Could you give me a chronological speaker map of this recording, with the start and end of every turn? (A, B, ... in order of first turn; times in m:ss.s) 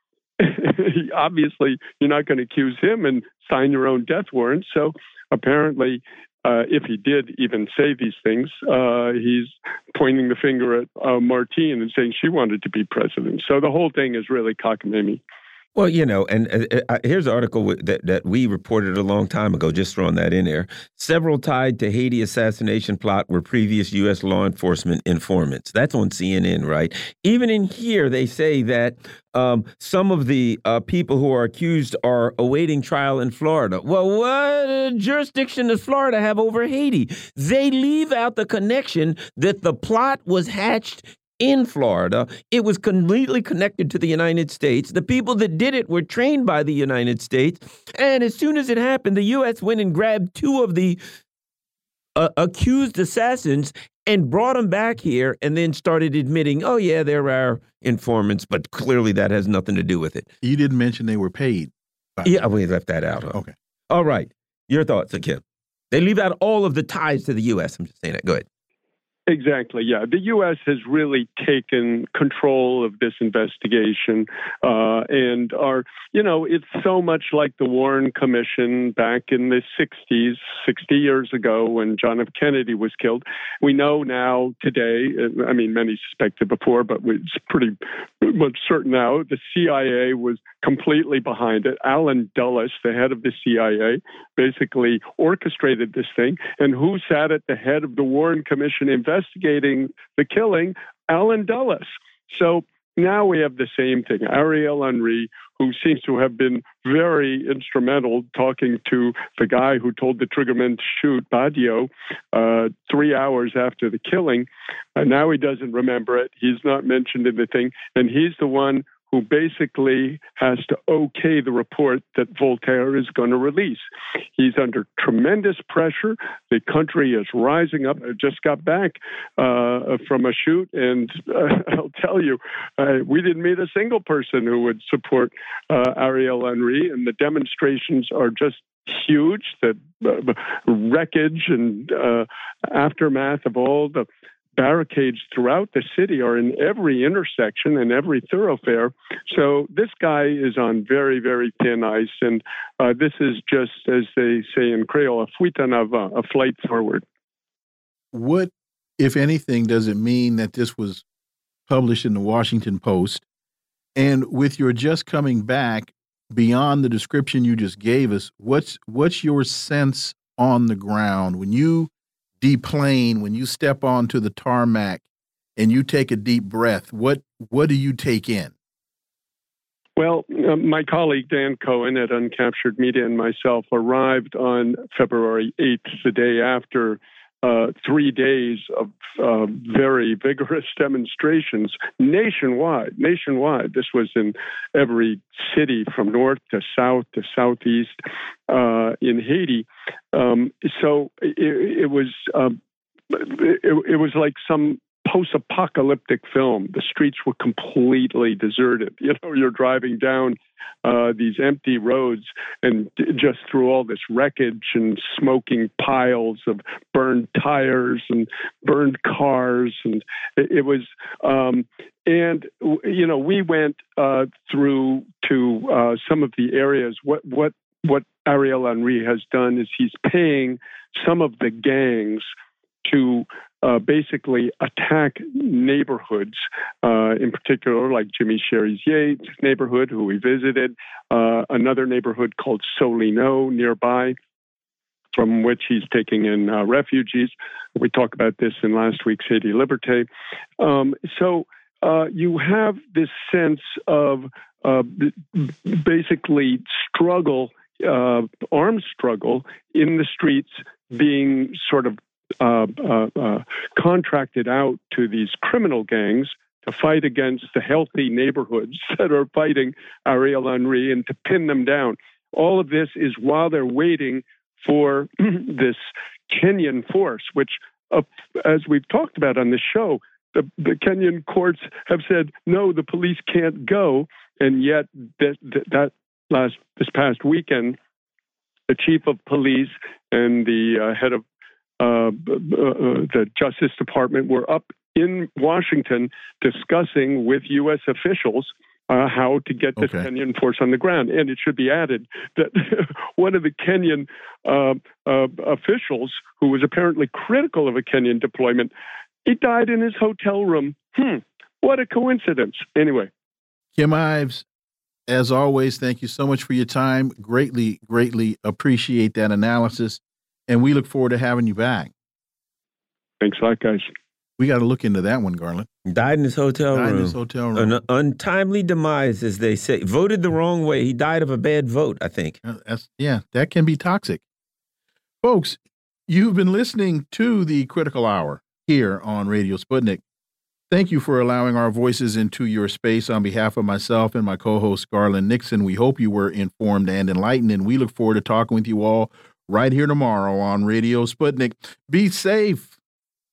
0:00.4-0:15.2 A
0:15.8-0:51.0 B
0:52.2-1:00.3 B
1:00.4-1:02.5 C
1:02.2-1:03.4 B
1:03.9-1:08.4 B
1:09.3-2:03.8 A
2:04.4-2:24.0 A
2:24.6-2:37.0 A
2:38.1-2:41.0 C
2:41.7-2:43.2 C
2:43.9-2:55.0 C
2:55.6-2:58.5 C
3:00.0-3:18.0 A
3:18.5-3:22.6 A
3:23.1-3:52.3 A
3:52.8-4:04.2 A
4:05.1-4:10.1 A
4:10.6-4:47.8 A
4:48.7-4:51.2 A
4:51.8-5:08.7 A
4:59.8-5:00.0 C
5:09.2-5:13.1 A
5:13.8-5:14.4 C
5:15.1-5:21.9 C
5:23.2-5:23.9 A
5:24.4-5:25.7 C
5:25.8-5:32.4 B
5:26.7-5:27.8 C
5:32.4-5:34.2 C
5:35.2-5:40.0 C
5:40.7-5:52.7 C